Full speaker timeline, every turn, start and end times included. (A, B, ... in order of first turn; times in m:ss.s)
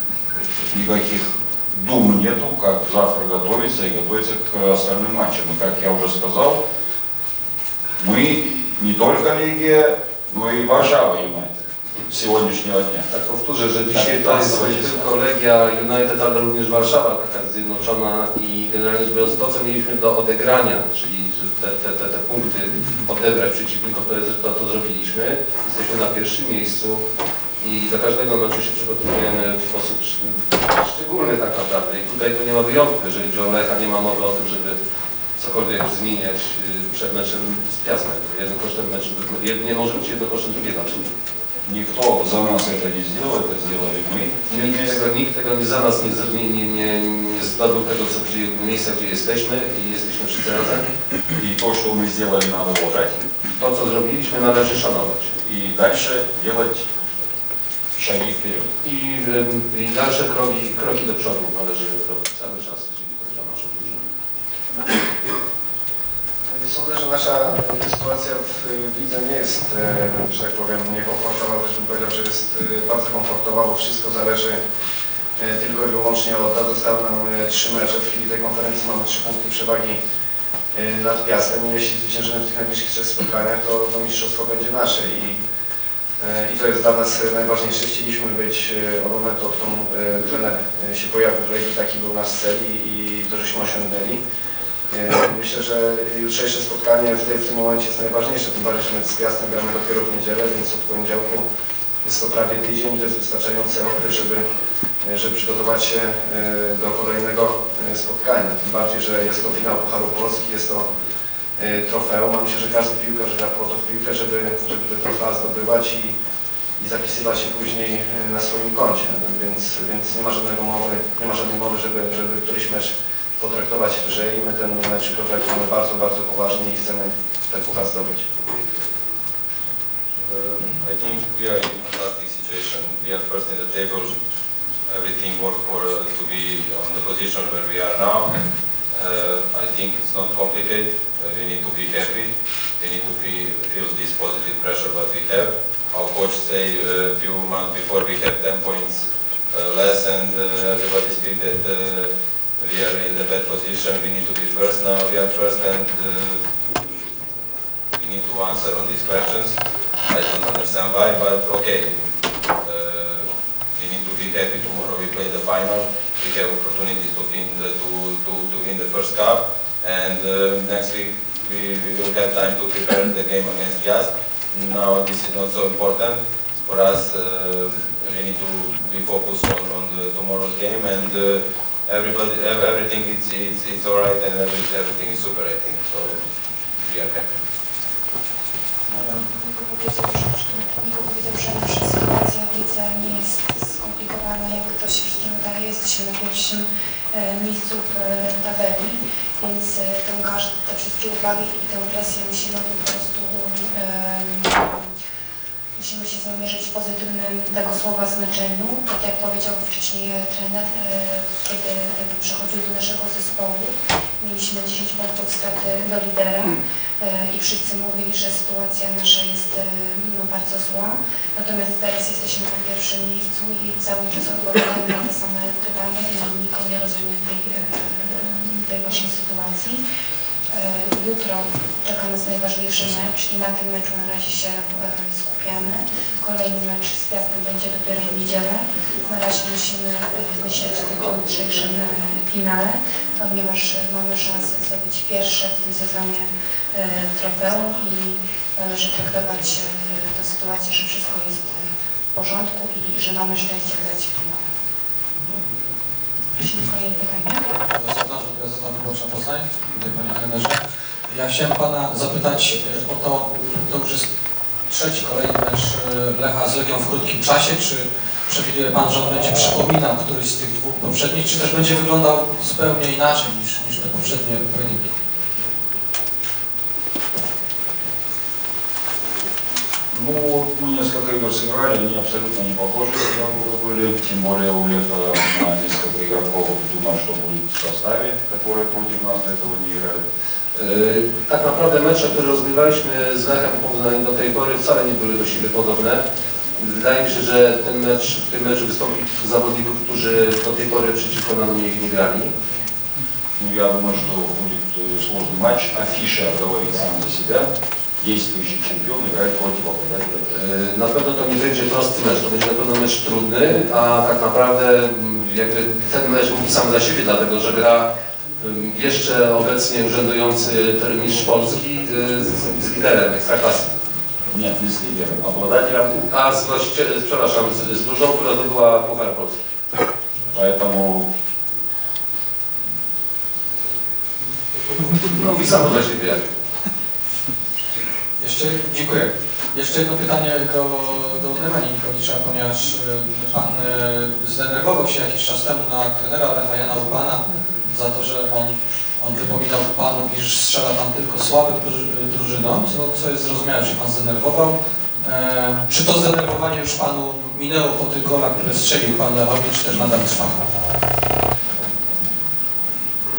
0:00.7-0:06.6 A
0:08.0-0:11.5 A
0:12.1-0:13.0 A
0:13.1-0:27.0 B
0:13.9-0:15.0 A
0:27.6-0:34.8 B
0:35.4-0:41.1 B
0:41.6-0:45.0 A
0:44.5-0:51.0 B
0:51.3-0:53.2 A
0:53.5-0:55.4 B
0:55.4-0:56.8 A
0:57.9-0:58.7 A
0:58.8-1:04.0 B
1:06.5-1:14.6 C
1:15.4-1:20.0 C
1:20.7-1:25.4 C
1:26.2-1:34.2 C
1:34.9-1:41.4 C
1:42.0-1:44.4 C
1:45.0-1:50.9 C
1:51.6-1:56.1 C
1:56.8-2:08.3 C
2:10.2-2:14.2 D
2:14.9-2:36.4 D
2:37.9-2:39.6 D
2:40.1-3:06.2 D
3:06.8-3:07.4 D
3:08.9-3:24.9 E
3:25.8-3:49.8 E
3:50.5-4:14.4 E
4:16.4-4:17.6 E
4:17.8-4:20.6 F
4:21.1-4:24.0 F
4:24.7-4:34.8 F
4:39.9-4:50.0 A
4:50.5-4:56.0 B
4:56.6-5:02.3 B
5:03.4-5:10.2 A
5:10.3-5:17.9 B
5:18.4-5:23.7 B
5:24.3-5:26.0 A
5:26.1-5:29.4 B
5:30.3-5:31.1 A
5:35.0-5:36.3 B
5:38.2-6:00.4 F